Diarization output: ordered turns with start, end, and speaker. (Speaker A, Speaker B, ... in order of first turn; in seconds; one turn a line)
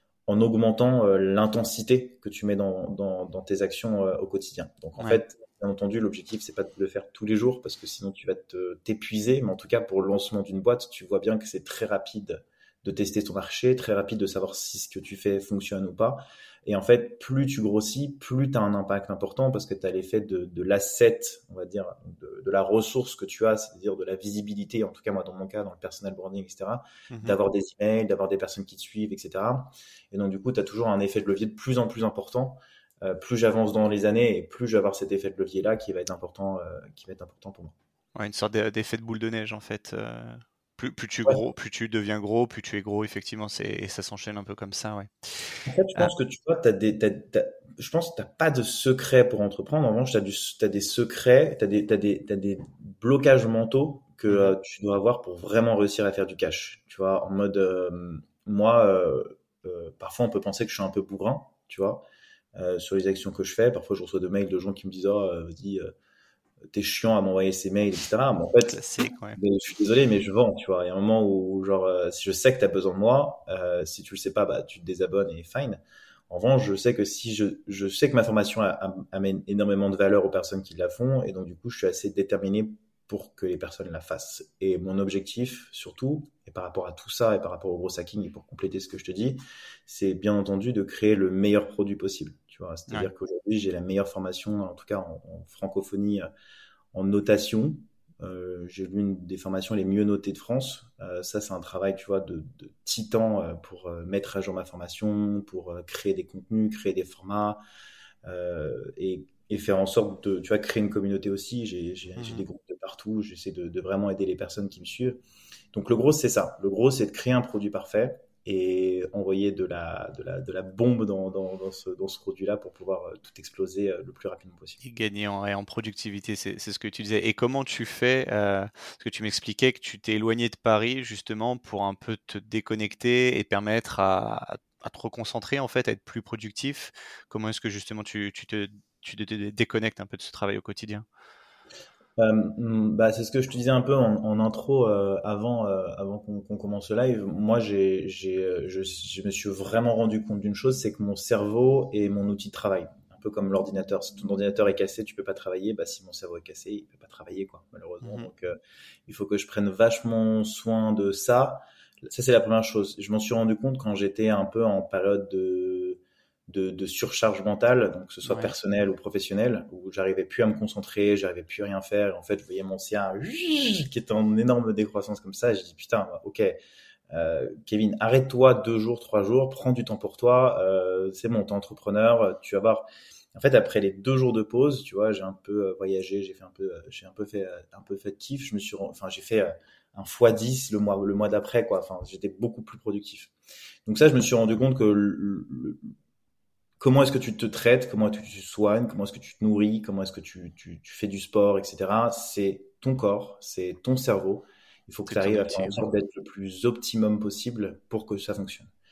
Speaker A: 0.3-37.7
Speaker B: 27.1-27.4
Speaker B: 38.2-46.1
Speaker A: 45.7-62.0
Speaker B: 54.3-54.5
Speaker A: 62.6-65.9
Speaker A: 66.7-68.8
Speaker B: 68.7-69.4
Speaker A: 69.3-96.3
Speaker A: 96.9-107.6
Speaker A: 108.2-115.2
Speaker B: 112.2-112.5
Speaker A: 115.7-124.8
Speaker B: 124.8-141.1
Speaker A: 142.2-176.6
Speaker B: 158.0-158.3
Speaker B: 168.2-168.5
Speaker A: 177.1-193.3
Speaker A: 193.9-195.9
Speaker A: 196.8-208.7
Speaker B: 205.1-205.8